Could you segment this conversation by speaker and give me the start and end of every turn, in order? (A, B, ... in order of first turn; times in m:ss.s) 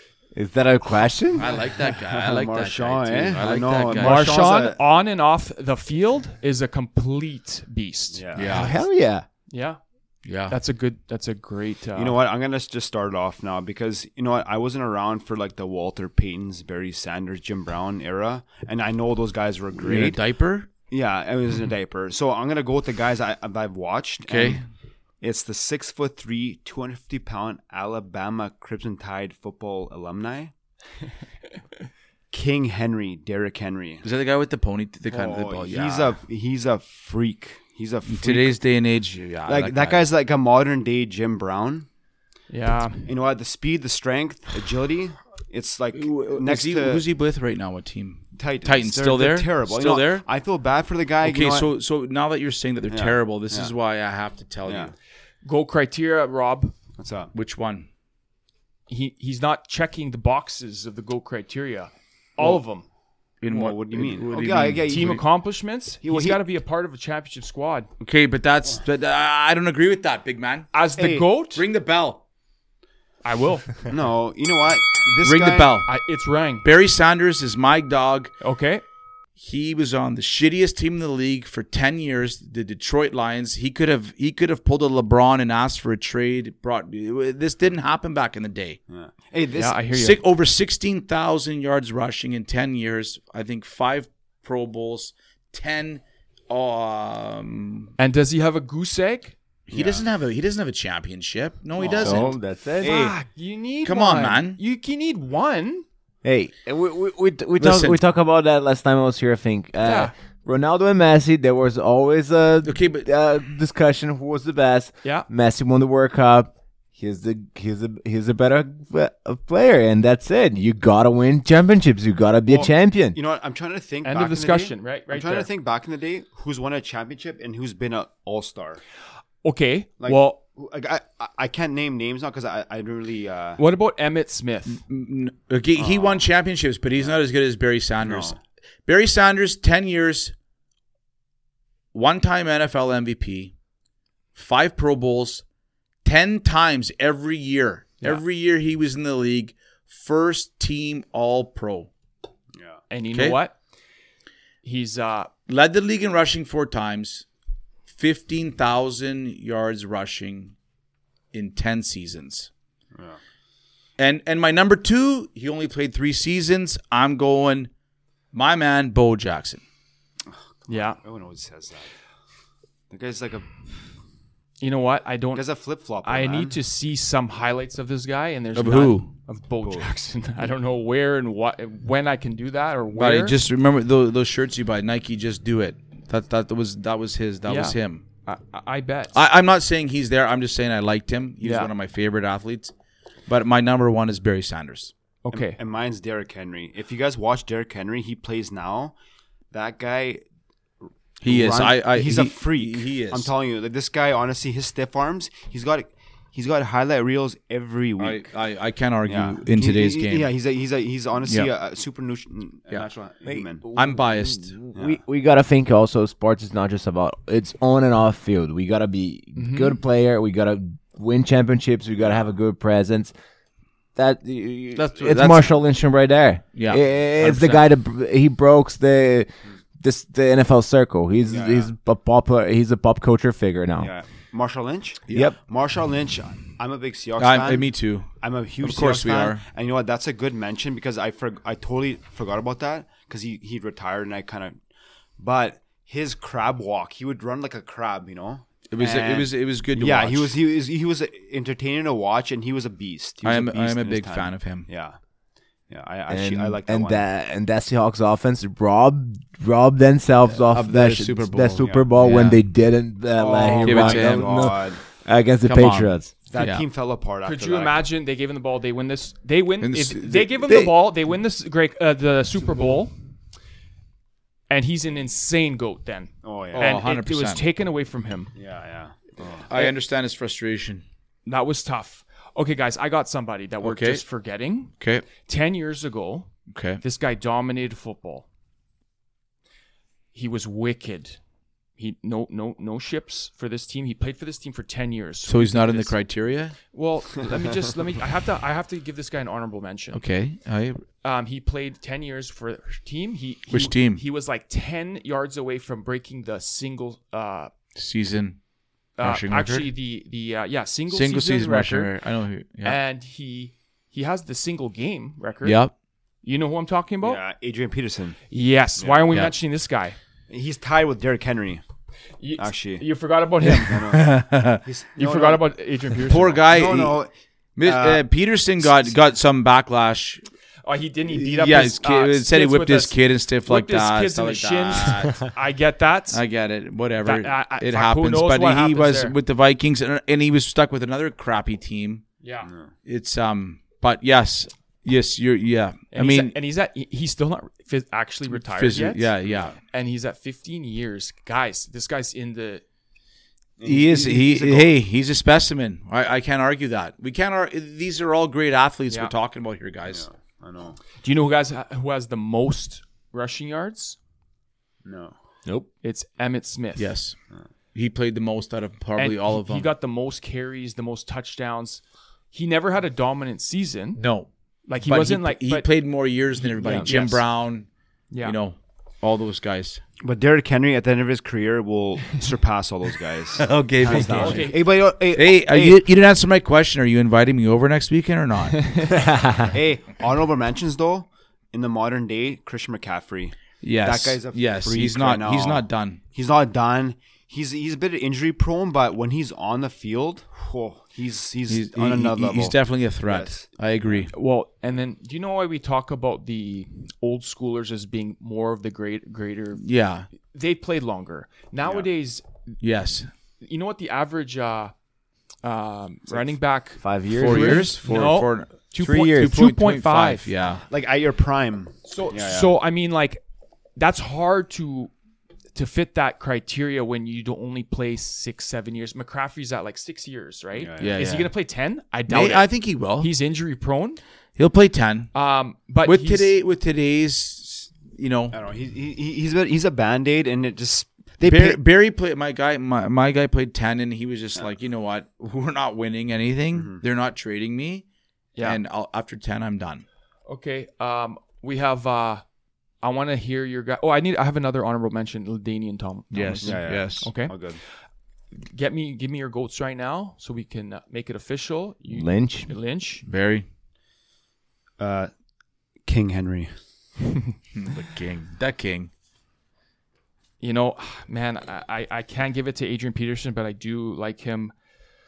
0:00.3-0:01.5 A
0:01.4-0:04.3 B
0:01.8-0:04.8 C
0:03.9-0:08.2 D
0:08.1-0:08.5 C
0:08.4-0:08.7 B
0:08.4-0:09.2 A
0:09.5-0:09.8 D
0:10.2-0:10.6 B
0:10.4-0:12.2 D
0:12.0-0:20.2 C
0:19.8-0:20.7 B
0:20.9-0:24.6 C
0:24.2-0:24.6 B
0:25.2-0:30.5 C
0:32.3-0:34.0 C
0:34.0-0:36.2 B
0:35.1-0:38.6 C
0:38.1-0:40.0 B
0:39.4-0:41.9 C
0:42.5-0:43.1 D
0:43.0-0:47.0 C
0:45.9-0:50.2 B
0:48.3-0:51.7 C
0:51.2-0:54.9 B
0:52.9-0:53.7 C
0:54.6-0:54.9 C
0:55.4-0:56.7 D
0:57.0-0:57.3 C
0:57.3-0:57.9 B
0:58.9-1:02.8 D
1:03.4-1:05.2 B
1:03.5-1:05.2 C
1:04.8-1:07.9 D
1:06.0-1:06.4 C
1:08.0-1:10.7 B
1:10.7-1:11.6 D
1:11.0-1:11.3 C
1:11.5-1:12.2 B
1:13.2-1:13.8 D
1:13.9-1:15.8 C
1:15.2-1:15.9 B
1:15.8-1:16.6 D
1:16.6-1:18.3 B
1:18.4-1:18.8 D
1:19.4-1:28.8 B
1:28.9-1:29.8 C
1:29.5-1:30.2 D
1:29.9-1:37.9 B
1:38.0-1:39.3 D
1:39.7-1:42.3 B
1:39.7-1:40.0 C
1:41.8-1:42.2 C
1:41.9-1:43.0 A
1:42.8-1:45.8 D
1:43.8-1:44.6 B
1:46.2-2:03.2 A
1:47.6-1:48.0 B
1:49.8-1:50.1 D
1:52.6-1:53.1 B
2:02.5-2:08.8 C
2:04.0-2:05.5 D
2:09.4-2:10.4 D
2:10.0-2:13.6 C
2:13.6-2:14.8 D
2:14.7-2:20.3 B
2:15.8-2:16.3 C
2:17.0-2:17.2 C
2:18.0-2:18.4 C
2:21.9-2:23.5 B
2:24.3-2:25.4 B
2:26.0-2:31.9 B
2:32.6-2:32.8 C
2:32.9-2:33.6 D
2:33.1-2:33.4 B
2:34.6-2:35.3 D
2:35.5-2:37.2 B
2:37.9-2:40.5 B
2:41.3-2:42.5 B
2:44.0-2:47.7 B
2:48.3-2:49.6 B
2:50.3-2:51.9 C
2:50.7-2:51.0 D
2:52.9-2:53.5 C
2:54.6-2:55.4 D
2:55.3-2:56.6 C
2:56.0-3:03.4 D
2:58.5-2:59.1 B
2:59.6-2:59.9 C
3:03.0-3:08.0 B
3:07.4-3:09.2 D
3:09.1-3:12.7 B
3:11.4-3:11.7 D
3:13.3-3:14.9 B
3:15.2-3:15.6 D
3:15.3-3:18.9 C
3:19.5-3:20.2 C
3:21.2-3:23.3 B
3:21.2-3:28.3 C
3:28.0-3:30.3 B
3:29.0-3:33.6 C
3:33.3-3:43.1 A
3:33.7-3:34.5 B
3:39.3-3:39.8 D
3:44.0-3:49.3 A
3:44.7-3:45.5 B
3:46.5-3:47.6 B
3:49.8-3:53.9 A
3:51.3-3:51.7 C
3:53.8-4:04.6 C
3:55.1-3:55.4 A
3:57.2-3:58.1 B
3:58.6-3:59.4 B
4:05.2-4:15.0 C
4:08.7-4:10.4 B
4:13.2-4:14.7 B
4:15.7-4:17.0 C
4:16.1-4:26.1 A
4:20.3-4:22.4 B
4:21.6-4:21.9 C
4:23.2-4:24.8 C
4:23.6-4:24.5 B
4:25.4-4:26.6 B
4:26.2-4:27.9 C
4:27.2-4:32.9 D
4:29.6-4:30.7 B
4:34.5-4:38.3 D
4:36.2-4:36.8 C
4:36.5-4:37.4 B
4:38.3-4:39.5 C
4:39.5-4:40.8 B
4:41.2-4:48.2 D
4:43.6-4:44.0 B
4:44.8-4:45.0 B
4:46.5-4:46.8 B
4:50.1-4:51.2 D
4:51.8-4:56.0 D
4:55.2-4:56.6 B
4:56.7-5:00.0 D
4:59.9-5:00.8 B
5:01.0-5:07.5 D
5:03.5-5:04.0 B
5:07.7-5:08.4 B
5:09.0-5:11.9 D
5:09.0-5:09.7 B
5:10.9-5:12.8 B
5:12.6-5:15.6 D
5:15.4-5:15.7 B
5:16.2-5:17.2 D
5:17.0-5:18.2 C
5:18.3-5:20.0 D
5:18.8-5:19.1 C
5:20.3-5:21.6 C
5:22.2-5:23.8 D
5:22.4-5:22.9 C
5:23.4-5:24.6 B
5:23.6-5:25.4 C
5:25.0-5:26.4 D
5:26.0-5:27.0 B
5:26.4-5:28.0 C
5:27.6-5:30.2 B
5:28.6-5:28.9 C
5:30.6-5:36.2 D
5:31.1-5:35.3 B
5:36.1-5:42.0 B
5:37.0-5:39.1 D
5:42.2-5:42.5 D
5:42.4-5:42.7 C
5:42.8-5:46.4 B
5:45.9-5:49.1 D
5:48.4-5:49.6 B
5:49.7-5:52.6 D
5:53.6-5:54.7 C
5:53.6-6:00.0 B
5:58.9-5:59.1 D
5:59.8-6:00.8 C
6:01.0-6:04.0 D
6:04.8-6:05.1 C
6:05.8-6:06.9 D
6:06.8-6:07.2 B
6:07.7-6:09.7 B
6:09.0-6:14.0 D
6:14.0-6:14.3 B
6:14.7-6:15.7 D
6:14.8-6:17.7 B
6:16.4-6:17.2 D
6:16.6-6:16.9 A
6:18.1-6:18.4 D
6:18.2-6:19.8 B
6:20.0-6:23.5 C
6:23.4-6:24.5 B
6:23.8-6:24.5 A
6:24.0-6:25.8 C
6:24.1-6:24.6 D
6:25.1-6:28.7 B
6:28.9-6:29.5 A
6:29.5-6:44.1 C
6:33.6-6:36.0 B
6:41.5-6:44.1 B
6:44.1-6:49.6 D
6:49.6-6:50.1 B
6:50.2-6:52.6 D
6:52.6-6:53.1 B
6:53.4-6:54.7 D
6:55.4-7:00.3 D
6:56.8-6:57.7 A
6:57.2-7:00.6 B
6:58.8-6:59.4 A
7:00.7-7:02.5 C
7:01.8-7:03.2 D
7:03.8-7:04.9 D
7:05.5-7:14.0 D
7:10.6-7:11.0 C
7:10.8-7:11.3 B
7:12.1-7:13.1 B
7:14.4-7:15.1 B
7:15.1-7:16.3 D
7:15.8-7:18.4 B
7:18.3-7:21.6 C
7:21.2-7:27.8 B
7:26.5-7:26.8 C
7:28.4-7:29.8 B
7:30.3-7:32.2 D
7:32.8-7:37.4 D
7:36.1-7:37.1 B
7:36.4-7:37.6 C
7:38.3-7:43.0 D
7:41.9-7:42.5 A
7:43.0-7:43.4 B
7:44.8-7:45.1 C
7:45.8-7:46.5 C
7:47.5-7:48.9 B
7:50.4-7:54.5 D